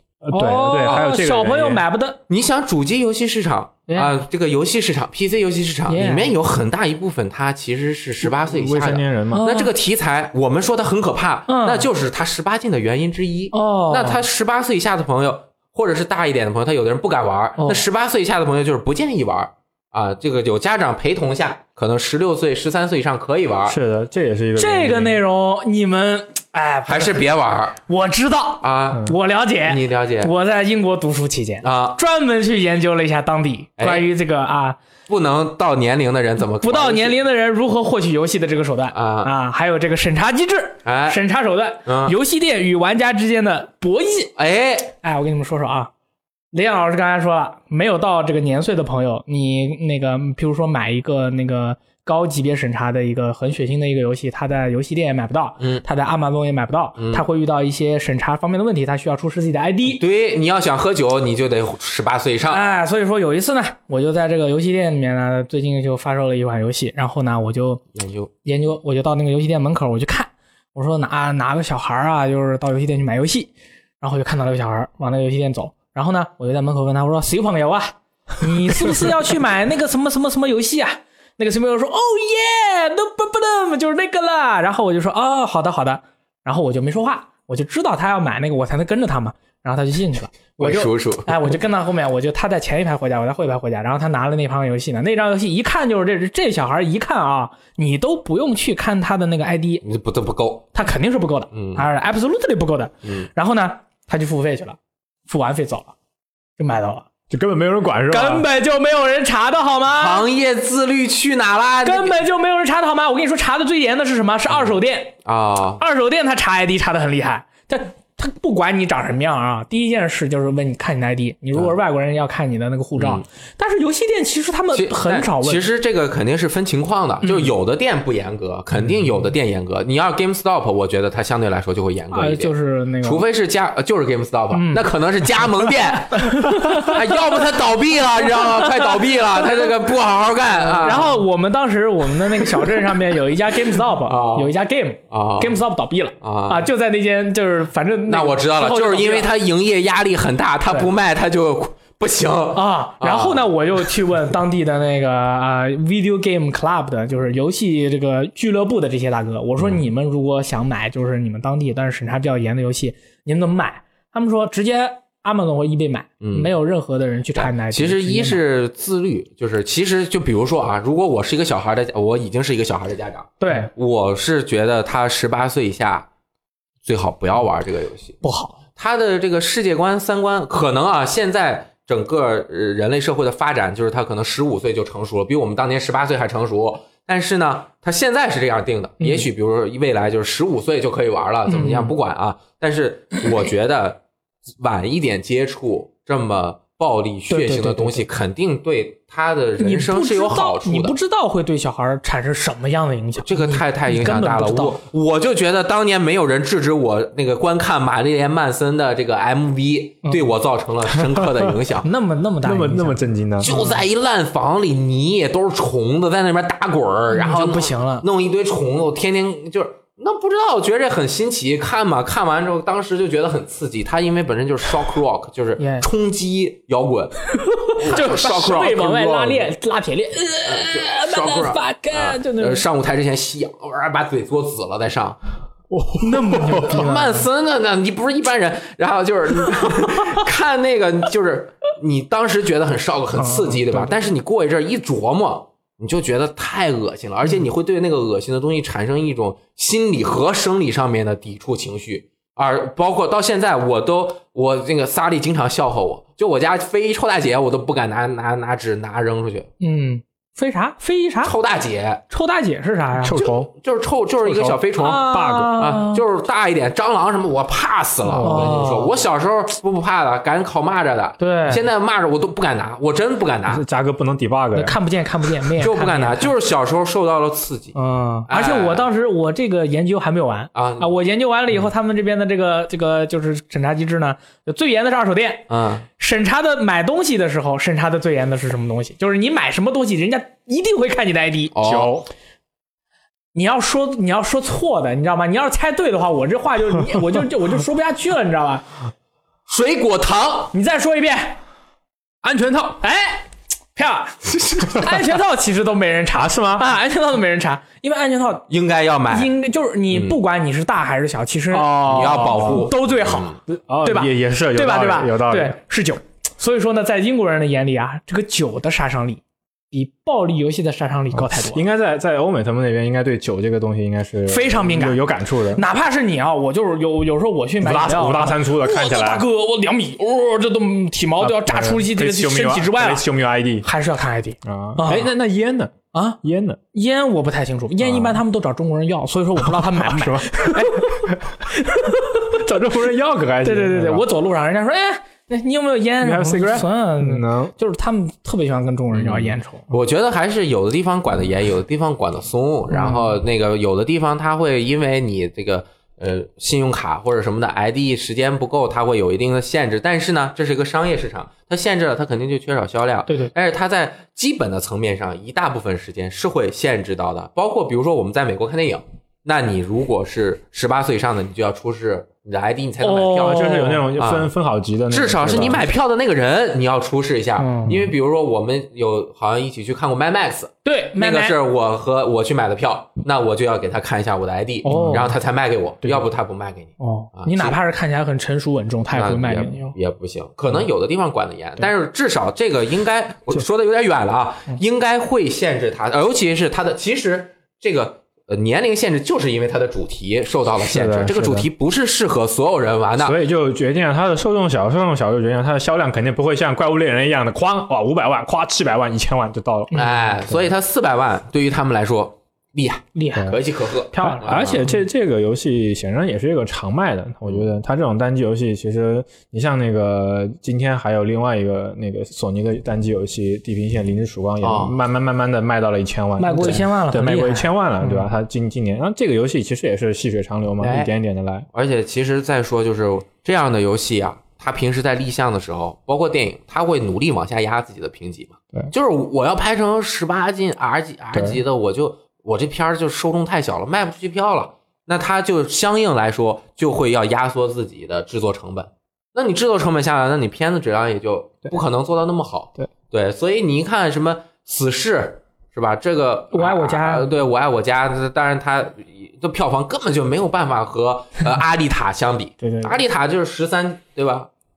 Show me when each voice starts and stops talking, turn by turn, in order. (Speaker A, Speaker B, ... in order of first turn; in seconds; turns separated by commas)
Speaker A: 0.2-1.8, Speaker B: 0.3-2.2, Speaker C: 2.3-23.8, Speaker B: 3.9-4.1, Speaker B: 5.9-6.3, Speaker A: 8.2-9.4, Speaker B: 9.3-9.7, Speaker B: 11.5-11.9, Speaker B: 13.5-14.2, Speaker B: 17.6-17.8, Speaker A: 23.7-25.2, Speaker B: 24.6-27.2, Speaker C: 26.9-27.8, Speaker B: 27.9-34.8, Speaker C: 28.6-29.1, Speaker C: 29.7-30.3, Speaker C: 31.6-32.0, Speaker C: 33.8-34.1, Speaker C: 35.1-37.2, Speaker B: 36.6-44.3, Speaker C: 38.9-39.3, Speaker C: 40.9-41.2, Speaker C: 41.9-42.1, Speaker C: 44.4-44.9, Speaker B: 45.0-45.9, Speaker B: 46.5-60.0, Speaker C: 55.6-55.9, Speaker C: 57.0-57.2, Speaker C: 59.9-62.6, Speaker B: 62.5-67.8, Speaker C: 68.0-68.3, Speaker B: 68.5-99.8, Speaker C: 90.6-91.6, Speaker C: 99.8-100.7, Speaker B: 100.7-106.0, Speaker C: 101.5-101.9, Speaker B: 106.6-107.1, Speaker A: 107.3-108.5, Speaker B: 108.1-110.2, Speaker C: 109.9-112.2, Speaker B: 111.8-115.2, Speaker C: 115.2-115.8, Speaker B: 115.8-125.6, Speaker C: 123.0-123.2, Speaker C: 124.7-141.2, Speaker B: 127.2-127.5, Speaker B: 132.1-133.2, Speaker B: 134.5-134.9, Speaker B: 136.1-137.2, Speaker B: 138.2-139.7, Speaker B: 140.6-149.3, Speaker C: 144.0-144.5, Speaker C: 145.1-145.6, Speaker C: 146.2-146.7, Speaker C: 148.1-153.5, Speaker B: 152.5-168.4, Speaker C: 166.2-166.5, Speaker C: 167.4-176.1, Speaker B: 173.4-173.7, Speaker C: 176.8-178.2, Speaker B: 178.2-178.6, Speaker C: 178.8-194.0, Speaker B: 189.0-189.3, Speaker B: 191.5-191.9, Speaker C: 194.6-200.9, Speaker B: 197.3-198.1, Speaker B: 199.6-204.8, Speaker C: 203.2-211.9, Speaker A: 211.0-211.5, Speaker B: 211.8-213.8, Speaker A: 212.4-213.5, Speaker C: 213.4-229.5, Speaker B: 217.1-218.1, Speaker B: 225.6-225.9, Speaker B: 227.3-232.6, Speaker C: 230.5-235.2, Speaker A: 235.7-236.9, Speaker B: 236.0-237.3, Speaker C: 236.4-259.5, Speaker B: 239.8-240.2, Speaker B: 243.2-243.9, Speaker B: 259.6-261.3, Speaker C: 261.2-262.0, Speaker B: 262.1-263.2, Speaker A: 263.0-263.5, Speaker C: 263.1-265.1, Speaker A: 264.2-265.6, Speaker B: 264.8-266.0, Speaker C: 265.6-273.6, Speaker A: 268.1-268.6, Speaker B: 268.2-269.0, Speaker B: 271.2-271.6, Speaker A: 273.5-274.8, Speaker B: 274.5-276.3, Speaker C: 275.6-277.8, Speaker B: 277.8-285.5, Speaker C: 278.3-278.9, Speaker C: 280.6-281.0, Speaker C: 285.5-285.9, Speaker B: 286.0-291.5, Speaker C: 291.5-291.9, Speaker A: 291.6-292.1, Speaker B: 293.3-298.7, Speaker C: 299.5-300.5, Speaker B: 300.5-301.4, Speaker A: 302.2-302.8, Speaker B: 302.8-308.5, Speaker C: 304.3-304.9, Speaker A: 306.1-306.7, Speaker C: 308.5-309.3, Speaker B: 309.1-313.3, Speaker C: 309.9-310.2, Speaker A: 311.5-312.7, Speaker C: 311.9-313.4, Speaker A: 313.5-315.6, Speaker B: 313.8-321.6, Speaker A: 321.1-325.6, Speaker B: 324.3-325.0, Speaker B: 325.5-333.1, Speaker A: 327.6-329.2, Speaker A: 331.2-333.7, Speaker B: 333.6-335.1, Speaker A: 334.4-336.6, Speaker B: 335.9-336.2, Speaker B: 336.7-342.4, Speaker A: 337.8-338.2, Speaker A: 339.4-341.4, Speaker A: 342.3-344.1, Speaker B: 343.4-349.7, Speaker A: 346.0-347.5, Speaker C: 349.0-374.3, Speaker B: 352.7-353.2, Speaker B: 363.1-363.3, Speaker B: 372.8-373.8, Speaker A: 373.2-375.7, Speaker C: 374.9-387.6, Speaker B: 377.4-377.9, Speaker B: 380.6-381.4, Speaker B: 384.6-385.1, Speaker A: 384.6-385.1, Speaker A: 385.8-386.1, Speaker B: 386.8-389.8, Speaker C: 388.9-403.2, Speaker A: 400.7-401.5, Speaker A: 403.0-409.8, Speaker B: 409.7-410.1, Speaker C: 409.7-414.7, Speaker B: 413.0-413.4, Speaker B: 413.9-414.8, Speaker A: 414.2-431.5, Speaker C: 424.4-424.8, Speaker B: 426.2-428.1, Speaker C: 430.6-430.9, Speaker C: 431.5-464.3, Speaker A: 441.1-441.4, Speaker B: 456.3-457.1, Speaker B: 462.4-462.7